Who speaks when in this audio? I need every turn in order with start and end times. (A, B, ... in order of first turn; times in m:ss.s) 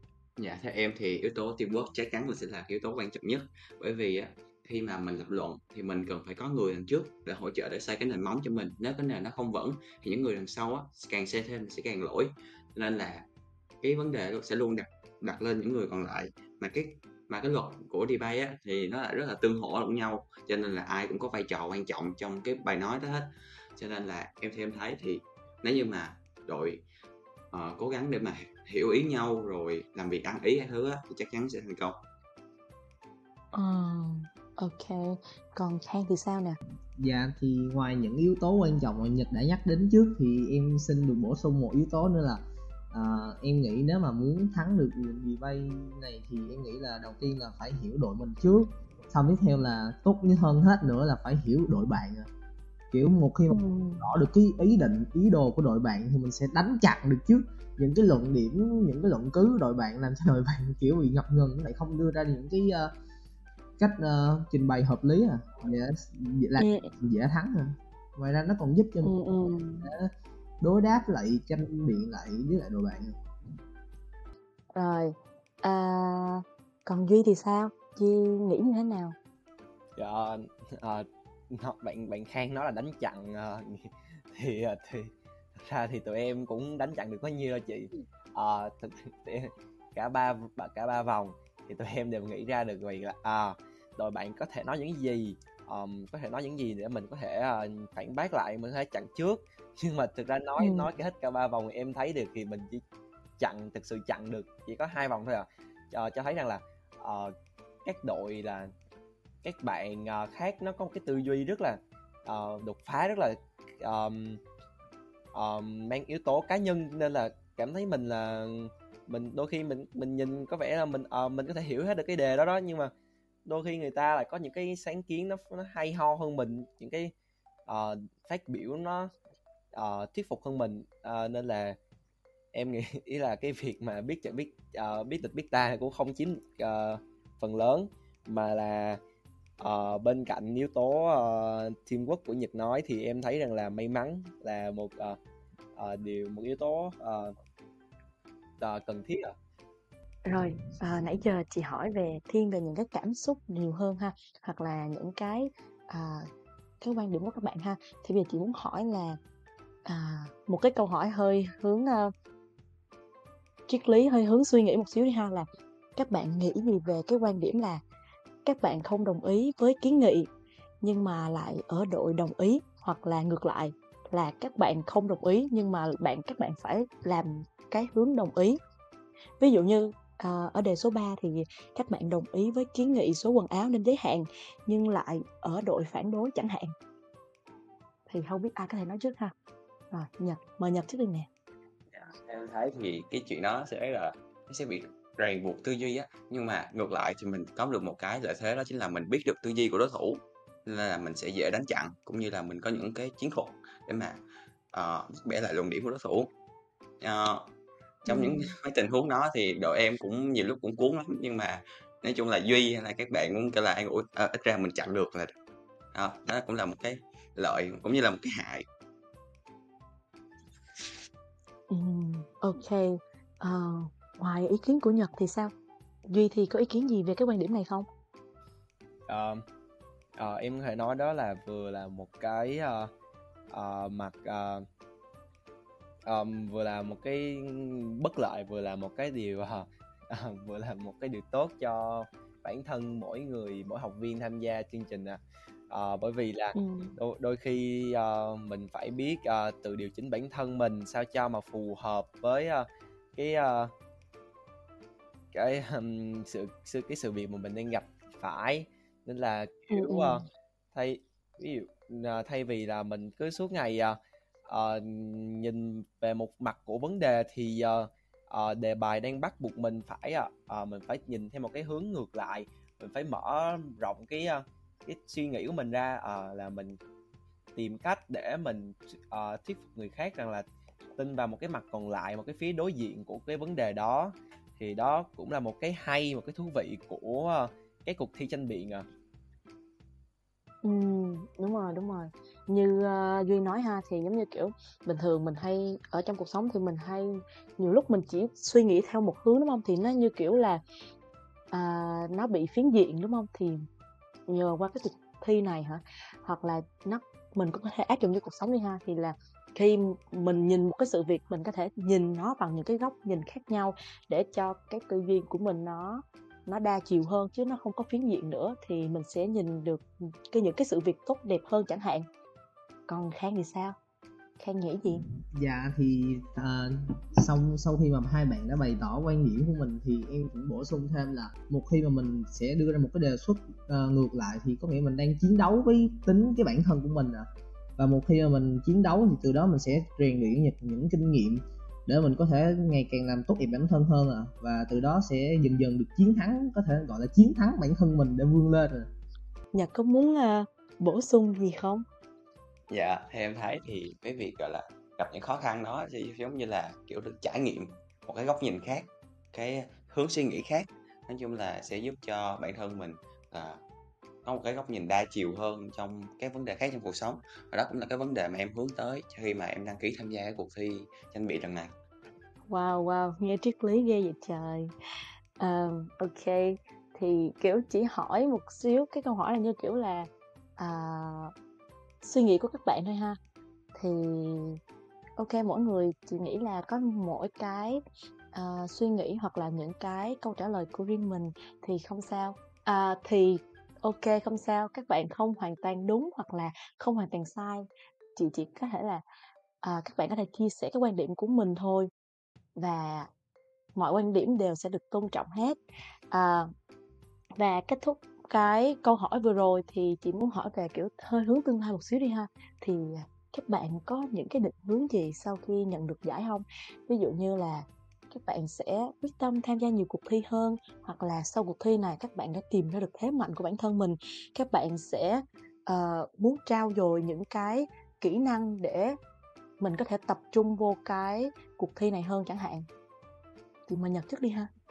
0:00.4-0:13.3 A
0:13.8-0:26.8 A
0:27.5-0:32.0 A
0:33.5-0:36.6 B
0:37.0-0:52.3 C
0:52.9-1:02.9 C
0:53.5-0:54.1 B
1:03.8-1:09.1 C
1:06.6-1:06.9 B
1:09.0-1:09.9 B
1:09.8-1:10.1 C
1:10.6-1:13.2 C
1:14.7-1:19.2 B
1:20.0-1:42.8 D
1:40.6-1:40.9 B
1:43.4-1:47.3 D
1:47.8-1:48.7 D
1:49.4-1:54.4 D
1:55.3-2:02.9 D
2:03.5-2:07.1 D
2:07.7-2:09.1 D
2:09.7-2:11.8 D
2:12.5-2:19.0 D
2:19.6-2:25.2 D
2:25.8-2:27.4 D
2:28.6-2:29.3 D
2:30.3-2:36.3 B
2:36.8-2:39.2 B
2:39.9-2:42.1 B
2:43.7-2:47.8 B
2:48.4-2:50.3 B
2:50.8-2:58.6 B
2:59.4-3:06.7 B
3:08.1-3:09.3 B
3:09.9-3:11.3 B
3:11.9-3:24.2 A
3:24.7-3:26.3 A
3:27.0-3:27.5 A
3:28.0-3:35.3 A
3:28.1-3:28.5 B
3:35.9-3:38.7 A
3:41.7-3:45.5 B
3:46.1-3:47.9 B
3:49.1-3:49.4 D
3:50.2-3:52.9 D
3:53.5-3:54.6 D
3:56.1-4:05.2 D
4:05.7-4:13.7 D
4:06.6-4:06.9 B
4:15.3-4:24.0 D
4:19.7-4:20.2 B
4:24.5-4:36.8 D
4:37.6-4:40.4 D
4:41.0-4:48.9 D
4:50.6-5:00.6 B
5:01.5-5:03.6 B
5:04.3-5:22.1 B
5:22.9-5:23.8 B
5:24.4-5:25.0 B
5:25.3-5:37.3 C
5:37.8-5:48.9 C
5:49.5-5:51.8 B
5:52.7-6:03.6 A
6:04.2-6:11.7 A
6:12.5-6:14.7 B
6:15.4-6:21.3 B
6:22.0-6:23.2 B
6:23.8-6:24.6 B
6:25.2-6:27.8 B
6:28.3-6:39.0 B
6:39.6-6:41.9 B
6:42.6-6:43.1 B
6:43.8-6:45.6 B
6:46.1-6:46.5 B
6:47.4-7:09.0 B
7:09.6-7:12.7 B
7:13.7-7:14.5 B